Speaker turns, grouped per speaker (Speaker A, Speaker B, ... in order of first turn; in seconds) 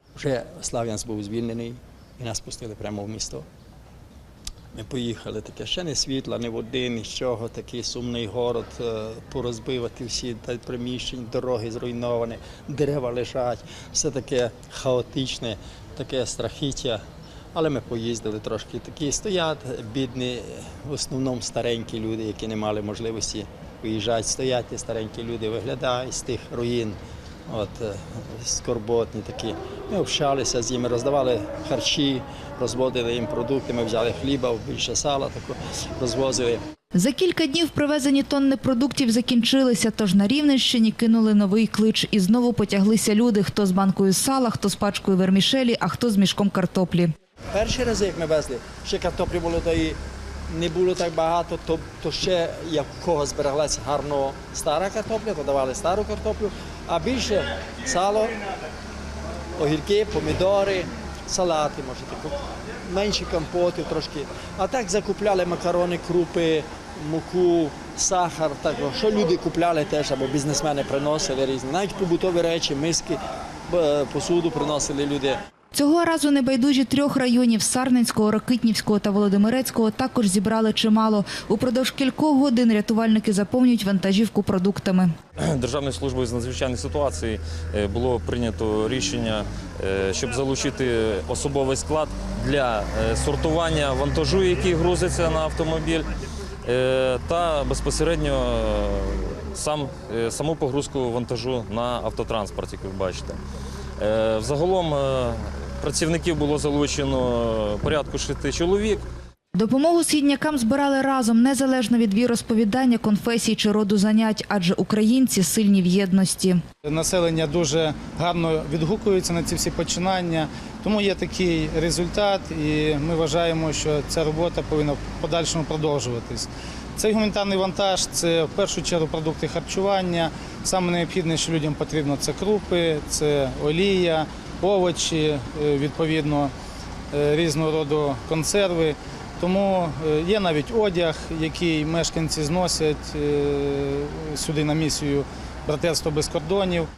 Speaker A: 0.2-3.5, 4.7-17.0, 17.5-36.6, 47.5-50.0, 50.5-58.4, 59.6-75.4
Speaker B: 37.0-47.1, 75.7-85.1, 109.5-116.6
Speaker C: 85.4-96.1, 96.7-103.4, 104.0-109.0
Speaker D: 116.8-136.5, 137.1-146.9